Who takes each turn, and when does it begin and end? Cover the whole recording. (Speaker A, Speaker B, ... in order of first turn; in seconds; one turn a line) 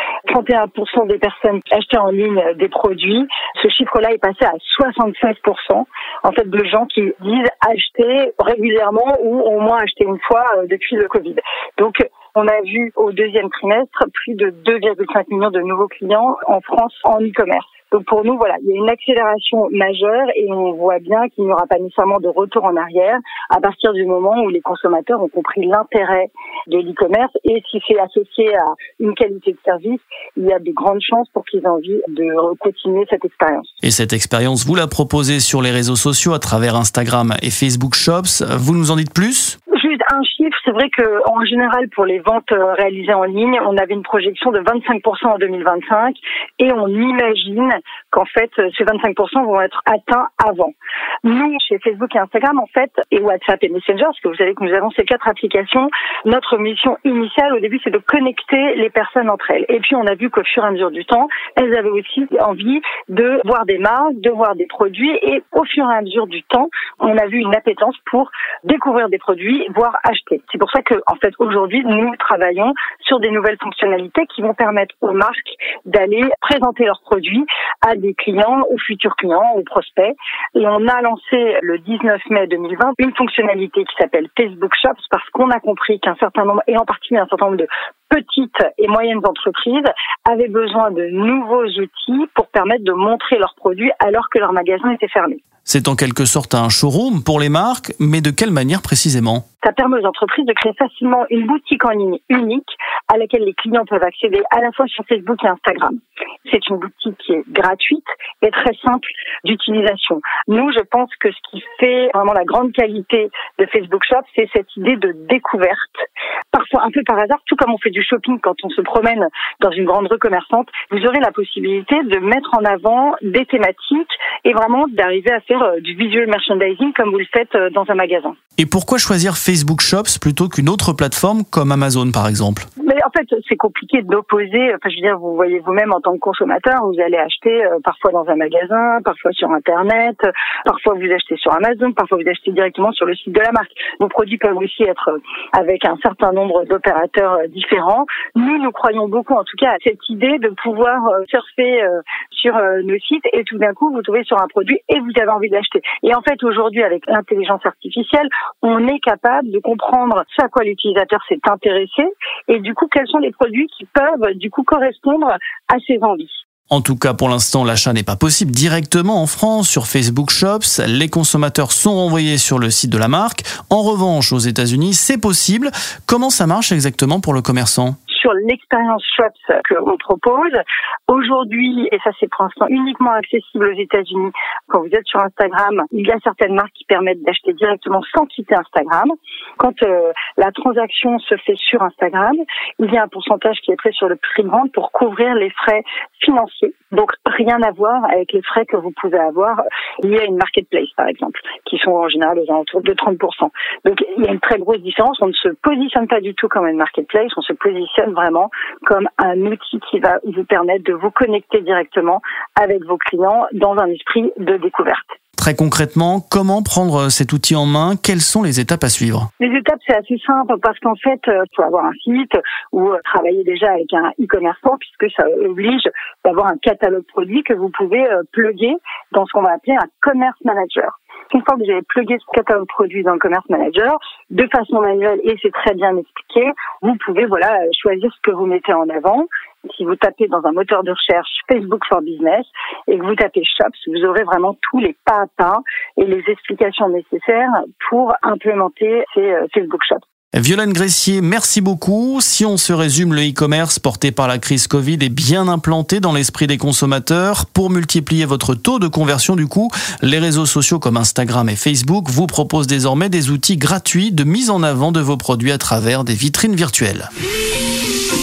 Speaker A: 0.3-33.7
Speaker B: 33.8-39.6
Speaker A: 39.7-95.4
Speaker B: 95.7-99.4
Speaker A: 99.6-128.4
Speaker B: 128.6-132.7
Speaker A: 132.8-166.4
Speaker B: 166.7-178.0
Speaker A: 178.1-215.2
Speaker B: 215.4-219.3
Speaker A: 219.4-250.0
Speaker B: 250.3-267.1